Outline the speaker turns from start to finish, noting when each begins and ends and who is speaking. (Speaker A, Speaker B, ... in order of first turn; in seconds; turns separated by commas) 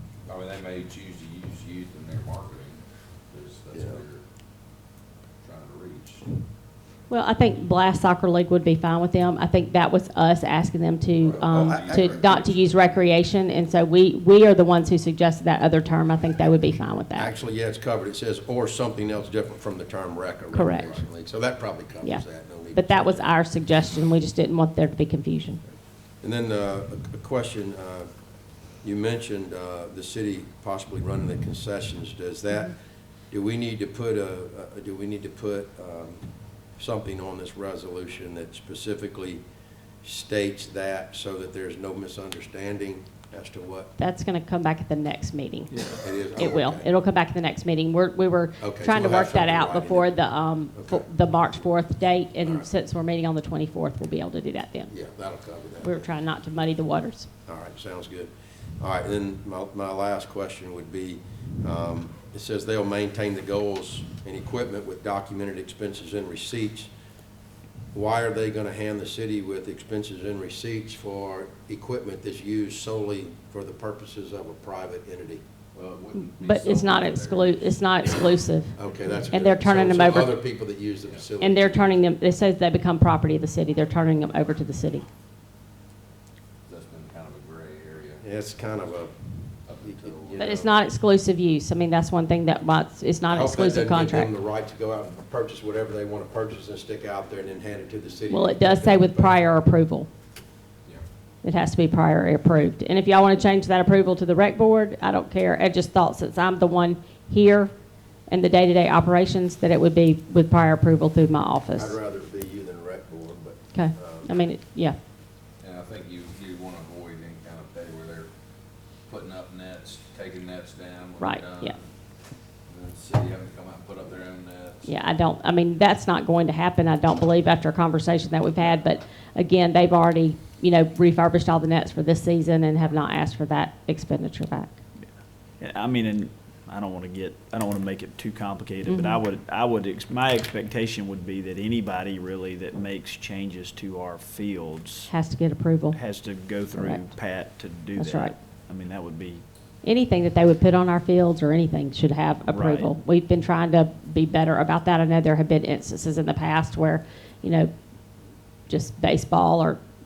Speaker A: 0.3-4.2, Speaker B: 3.7-4.0, Speaker A: 5.4-6.3, Speaker C: 7.1-17.3, Speaker A: 11.2-12.3, Speaker B: 11.4-12.8, Speaker B: 17.1-23.2, Speaker C: 20.5-20.9, Speaker C: 22.0-25.6, Speaker B: 26.2-28.1, Speaker B: 28.8-32.8, Speaker B: 33.3-39.4, Speaker B: 40.0-43.9, Speaker C: 44.0-45.7, Speaker B: 45.8-46.9, Speaker C: 46.3-54.9, Speaker B: 48.6-51.7, Speaker B: 52.4-52.7, Speaker B: 54.9-56.1, Speaker C: 55.8-57.3, Speaker B: 57.5-66.9, Speaker B: 67.9-75.4, Speaker A: 75.7-79.3, Speaker C: 76.4-78.8, Speaker B: 78.8-81.9, Speaker C: 79.3-80.4, Speaker C: 81.4-85.1, Speaker A: 86.7-88.2, Speaker B: 88.2-89.2, Speaker A: 89.7-90.6, Speaker B: 89.8-90.7, Speaker C: 90.4-94.3, Speaker B: 93.3-99.5, Speaker C: 98.3-100.1, Speaker C: 101.4-107.7, Speaker C: 108.3-112.0, Speaker B: 111.7-114.4, Speaker C: 113.7-115.0, Speaker A: 115.6-118.3, Speaker A: 119.1-121.9, Speaker C: 121.2-121.8, Speaker A: 122.7-124.9, Speaker C: 124.8-134.8, Speaker D: 135.6-145.1, Speaker C: 138.9-139.2, Speaker C: 145.1-146.0, Speaker D: 145.9-149.4, Speaker C: 146.7-147.0, Speaker C: 147.9-148.3, Speaker C: 149.8-157.7, Speaker D: 152.5-152.9, Speaker C: 158.7-159.8